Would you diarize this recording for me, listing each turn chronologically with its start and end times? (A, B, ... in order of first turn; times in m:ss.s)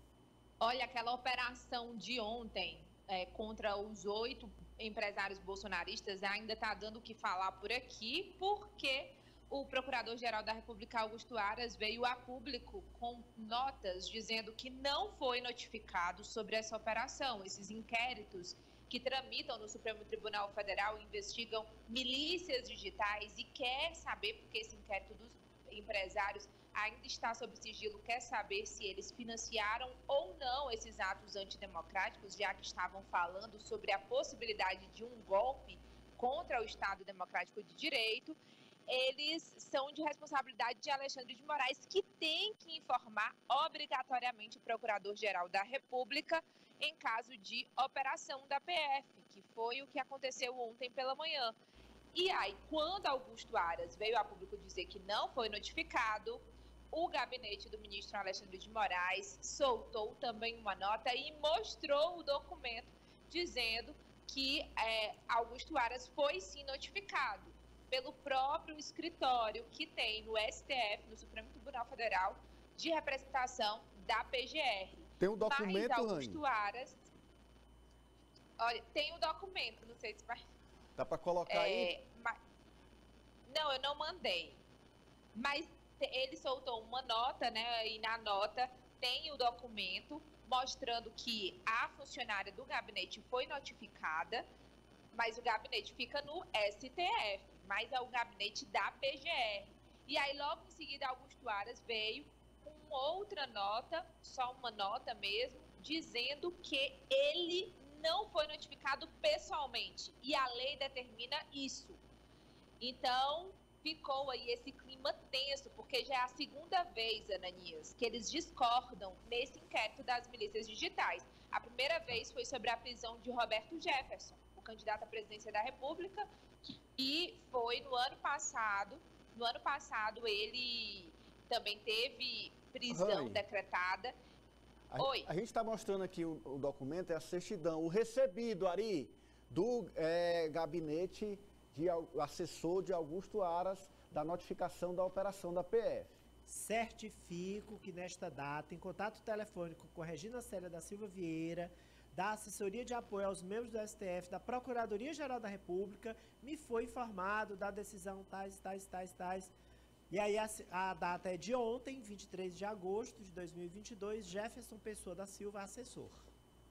0:00.6-0:38.4 A
0:38.9-0:51.5 A
0:52.1-0:56.4 A
0:56.9-1:17.0 A
1:15.2-1:16.4 B
1:18.6-1:20.4 A
1:21.0-1:21.9 B
1:21.5-1:22.4 A
1:23.5-1:24.6 A
1:25.3-1:34.4 A
1:35.1-1:52.0 A
1:52.8-2:06.3 A
2:07.0-2:14.1 A
2:12.9-2:13.4 B
2:14.9-2:26.1 B
2:15.0-2:15.3 A
2:26.4-2:39.5 C
2:40.1-2:46.2 C